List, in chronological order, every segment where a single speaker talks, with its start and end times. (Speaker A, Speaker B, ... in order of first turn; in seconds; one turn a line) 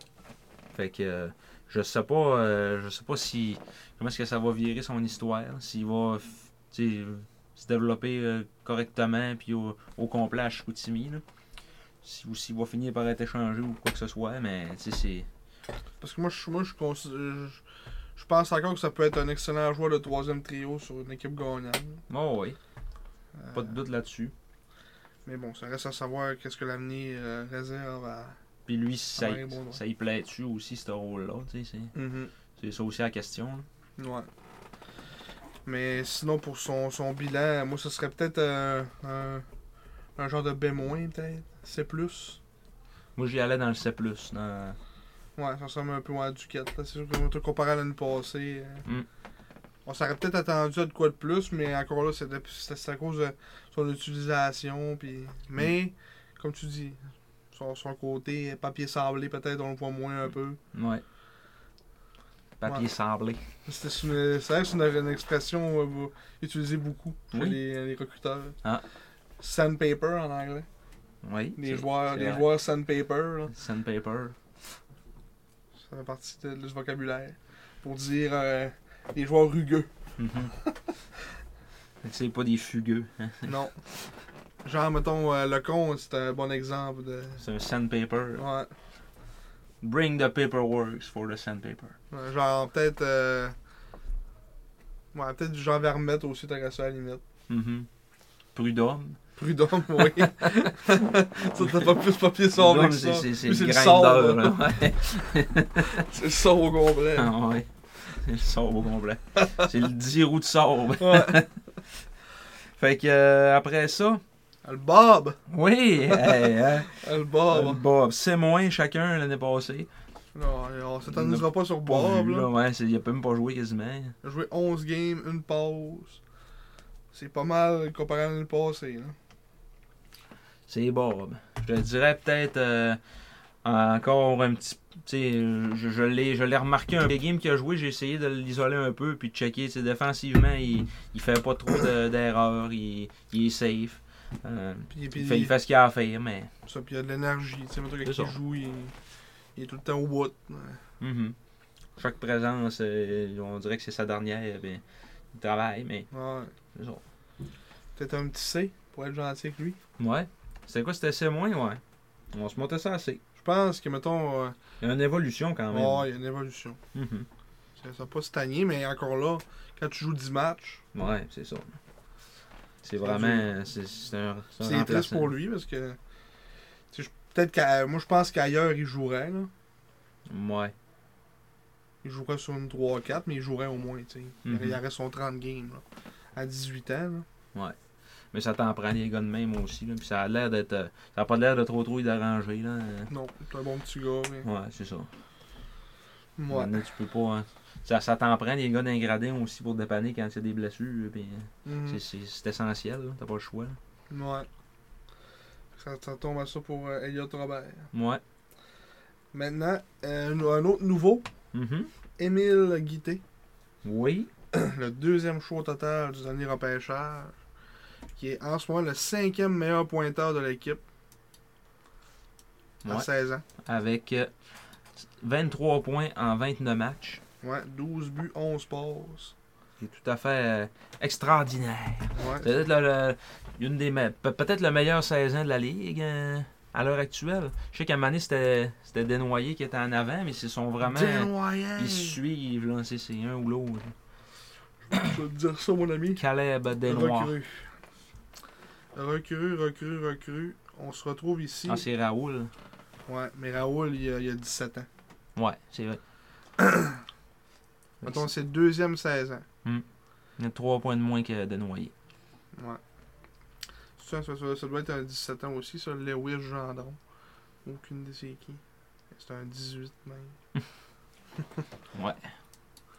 Speaker A: 0.8-11.2
Speaker A: 12.0-15.3
Speaker B: 16.0-17.6
Speaker B: 18.2-22.0
Speaker A: 22.1-22.6
Speaker B: 23.3-23.8
Speaker A: 23.5-24.3
Speaker B: 25.2-28.4
Speaker A: 28.7-31.9
Speaker B: 29.2-29.8
Speaker B: 31.9-32.3
Speaker A: 32.5-33.7
Speaker B: 34.0-34.3
Speaker B: 35.6-39.5
Speaker B: 40.2-42.4
Speaker A: 43.2-44.8
Speaker B: 45.4-48.9
Speaker B: 49.9-57.0
Speaker B: 57.5-60.6
Speaker A: 60.7-61.0
Speaker A: 62.6-63.5
Speaker B: 63.7-68.6
Speaker A: 67.3-67.6
Speaker B: 69.4-70.7
Speaker A: 71.2-72.5
Speaker B: 71.6-73.5
Speaker A: 73.5-74.4
Speaker B: 75.8-79.9
Speaker A: 80.2-80.5
Speaker B: 80.5-81.0
Speaker A: 82.0-83.6
Speaker B: 83.5-83.8
Speaker B: 84.6-87.4
Speaker A: 87.4-88.4
Speaker B: 88.4-88.7
Speaker A: 89.8-92.0
Speaker B: 92.1-93.6
Speaker B: 95.1-97.2
Speaker A: 97.5-97.9
Speaker A: 98.5-99.2
Speaker B: 99.4-104.7
Speaker A: 101.6-101.9
Speaker A: 102.5-106.0
Speaker B: 106.0-107.3
Speaker A: 107.2-111.6
Speaker B: 111.0-111.4
Speaker A: 112.8-114.2
Speaker B: 114.6-115.4
Speaker A: 115.5-119.9
Speaker B: 116.1-117.8
Speaker B: 120.3-122.5
Speaker A: 121.1-124.2
Speaker B: 124.2-126.2
Speaker B: 127.1-129.2
Speaker A: 130.7-133.0
Speaker A: 133.6-146.5
Speaker B: 144.9-145.5
Speaker B: 146.7-149.0
Speaker A: 148.0-148.3
Speaker B: 149.6-150.8
Speaker A: 151.0-151.4
Speaker A: 152.0-156.1
Speaker B: 156.1-156.5
Speaker A: 156.7-157.0
Speaker B: 157.9-159.8
Speaker A: 160.0-163.2
Speaker B: 163.4-164.6
Speaker A: 164.8-166.1
Speaker B: 165.7-166.8
Speaker A: 166.9-167.3
Speaker B: 167.8-170.8
Speaker A: 170.9-171.8
Speaker A: 172.8-175.3
Speaker B: 173.0-173.5
Speaker B: 174.6-176.0
Speaker B: 176.9-179.5
Speaker A: 180.3-180.7
Speaker B: 182.0-185.8
Speaker A: 184.4-184.8
Speaker B: 186.3-187.3
Speaker A: 188.3-193.1
Speaker B: 193.1-194.5
Speaker A: 194.4-195.1
Speaker B: 196.4-196.8
Speaker A: 196.5-203.8
Speaker B: 201.7-202.0
Speaker B: 204.1-204.5
Speaker B: 205.7-207.9
Speaker A: 207.9-208.2
Speaker B: 209.3-211.3
Speaker A: 211.5-211.9
Speaker B: 212.2-213.2
Speaker A: 213.8-214.3
Speaker B: 214.5-217.4
Speaker B: 218.2-220.8
Speaker A: 222.8-227.2
Speaker B: 222.9-223.4
Speaker B: 227.4-229.3
Speaker A: 229.8-243.9
Speaker B: 232.1-232.6
Speaker B: 240.8-242.2
Speaker B: 244.9-246.2
Speaker A: 246.2-247.3
Speaker B: 246.9-247.8
Speaker B: 248.9-251.8
Speaker A: 251.7-252.5
Speaker B: 253.1-254.9
Speaker A: 255.4-256.0
Speaker B: 256.6-257.0
Speaker A: 258.0-258.3
Speaker B: 258.0-259.4
Speaker A: 260.4-261.9
Speaker B: 262.5-262.8
Speaker B: 264.0-267.0
Speaker B: 267.6-270.4
Speaker A: 271.9-272.3